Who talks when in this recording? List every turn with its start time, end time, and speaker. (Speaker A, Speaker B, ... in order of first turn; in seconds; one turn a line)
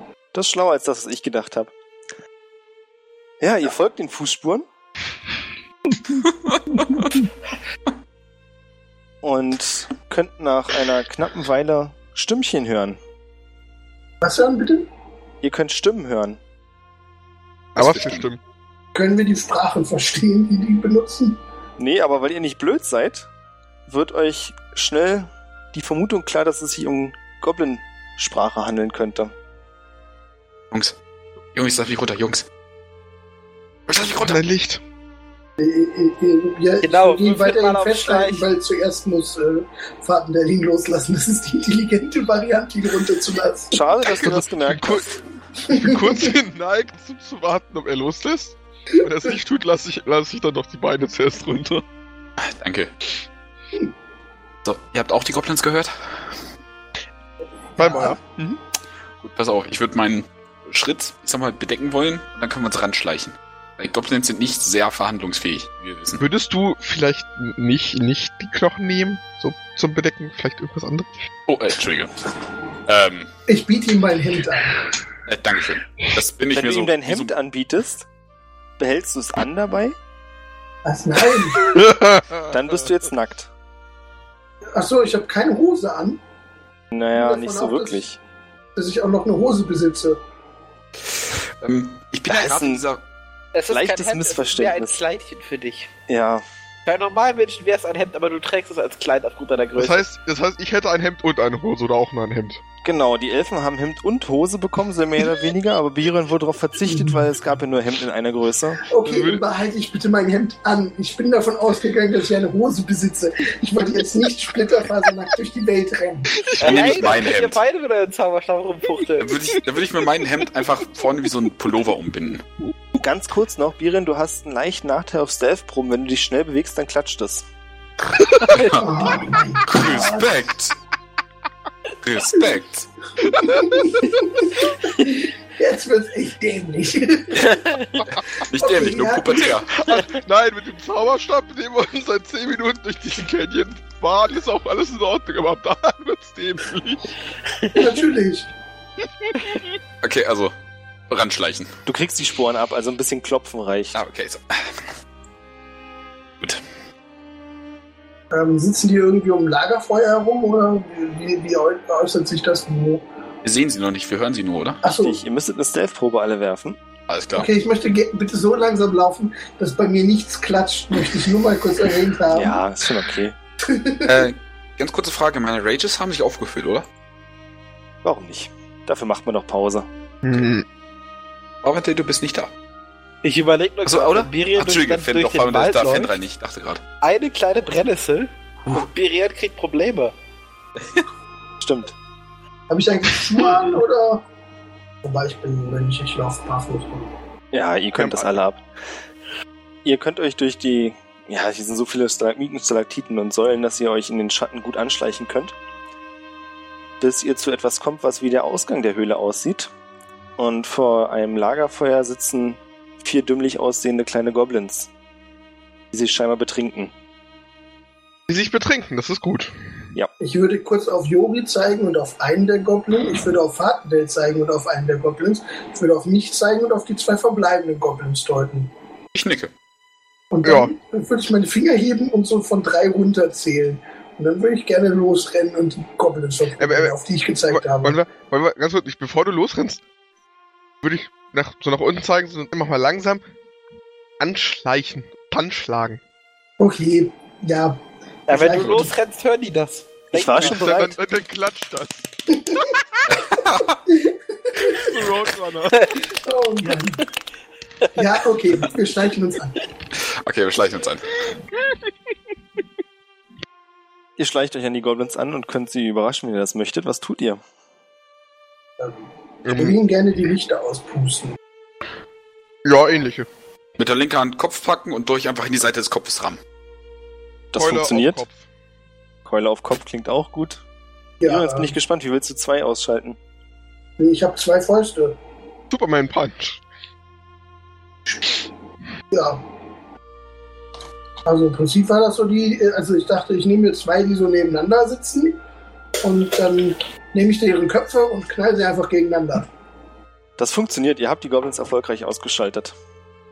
Speaker A: 0.3-1.7
Speaker A: 3.4-4.7
Speaker B: 6.2-7.2
Speaker A: 9.2-13.0
Speaker C: 14.2-14.9
Speaker A: 15.4-16.4
Speaker B: 17.8-18.3
Speaker D: 17.8-18.4
Speaker C: 18.9-21.4
Speaker A: 21.8-23.3
Speaker A: 23.9-29.3
Speaker B: 30.7-30.9
Speaker B: 31.5-32.5
Speaker B: 33.9-34.4
Speaker D: 34.1-34.8
Speaker C: 35.6-43.8
Speaker E: 36.8-38.5
Speaker A: 43.7-45.1
Speaker D: 44.1-45.1
Speaker C: 45.7-46.3
Speaker D: 45.7-51.8
Speaker B: 52.4-52.9
Speaker B: 54.6-55.9
Speaker D: 57.8-58.6
Speaker C: 57.8-58.2
Speaker B: 59.2-66.2
Speaker D: 66.2-71.1
Speaker B: 71.5-72.1
Speaker B: 72.8-73.3
Speaker C: 73.5-74.8
Speaker B: 75.2-77.3
Speaker A: 76.5-78.1
Speaker A: 78.8-80.0
Speaker C: 80.8-81.9
Speaker D: 81.6-82.5
Speaker A: 82.5-83.5
Speaker C: 84.7-86.2
Speaker A: 86.9-88.2
Speaker C: 87.1-88.0
Speaker C: 88.8-90.2
Speaker B: 91.6-93.0
Speaker A: 92.3-92.8
Speaker E: 93.5-95.9
Speaker A: 93.7-95.0
Speaker A: 96.1-96.4
Speaker E: 96.8-100.0
Speaker D: 99.8-102.6
Speaker A: 102.8-108.8
Speaker C: 108.8-116.3
Speaker D: 109.0-109.4
Speaker D: 116.3-116.9
Speaker B: 116.6-117.6
Speaker E: 116.6-119.3
Speaker B: 119.2-122.4
Speaker A: 122.9-127.4
Speaker B: 128.3-128.8
Speaker C: 128.7-130.4
Speaker B: 129.6-130.7
Speaker B: 132.0-132.9
Speaker D: 133.3-133.7
Speaker C: 133.4-137.7
Speaker E: 137.5-138.0
Speaker B: 138.1-139.7
Speaker C: 138.5-139.6
Speaker D: 139.8-147.1
Speaker E: 147.6-147.9
Speaker C: 147.7-148.5
Speaker D: 149.2-149.6
Speaker B: 150.0-150.5
Speaker B: 151.1-151.7
Speaker A: 151.8-154.0
Speaker B: 153.9-154.8
Speaker C: 158.3-163.0
Speaker B: 163.4-164.8
Speaker C: 164.8-165.2
Speaker A: 164.9-166.8
Speaker B: 167.1-167.5
Speaker C: 167.3-172.6
Speaker A: 172.3-173.3
Speaker C: 173.7-174.3
Speaker B: 174.0-176.8
Speaker A: 178.0-179.9
Speaker D: 180.2-180.6
Speaker B: 181.6-182.5
Speaker E: 183.2-186.1
Speaker B: 183.8-186.8
Speaker E: 187.0-190.1
Speaker B: 190.8-191.0
Speaker A: 191.6-191.9
Speaker C: 192.7-194.2
Speaker C: 195.0-197.1
Speaker A: 197.5-198.6
Speaker A: 199.8-205.5
Speaker A: 207.0-209.7
Speaker A: 210.4-214.9
Speaker A: 215.9-216.9
Speaker D: 218.3-219.5
Speaker C: 220.2-228.7
Speaker B: 229.1-229.5
Speaker C: 230.3-238.0
Speaker D: 230.4-230.7
Speaker D: 236.6-236.9
Speaker D: 237.5-239.8
Speaker D: 240.8-243.2
Speaker D: 244.2-246.0
Speaker C: 246.6-248.9
Speaker E: 248.3-250.9
Speaker A: 250.1-250.9
Speaker D: 250.4-252.1
Speaker C: 252.3-252.6
Speaker B: 253.1-253.8
Speaker C: 253.9-255.0
Speaker D: 254.7-255.9
Speaker C: 256.1-257.0
Speaker C: 257.9-259.6
Speaker B: 260.2-261.1
Speaker A: 264.2-267.4
Speaker C: 268.8-271.4
Speaker D: 269.4-269.8
Speaker D: 272.6-273.3
Speaker B: 273.8-276.4
Speaker A: 277.5-278.2
Speaker D: 277.5-278.4
Speaker A: 279.2-280.6
Speaker C: 281.2-281.8
Speaker A: 281.2-283.2
Speaker C: 284.0-285.2
Speaker D: 285.7-286.6
Speaker C: 289.1-289.4
Speaker C: 291.2-295.4
Speaker C: 296.0-299.5
Speaker A: 300.4-302.7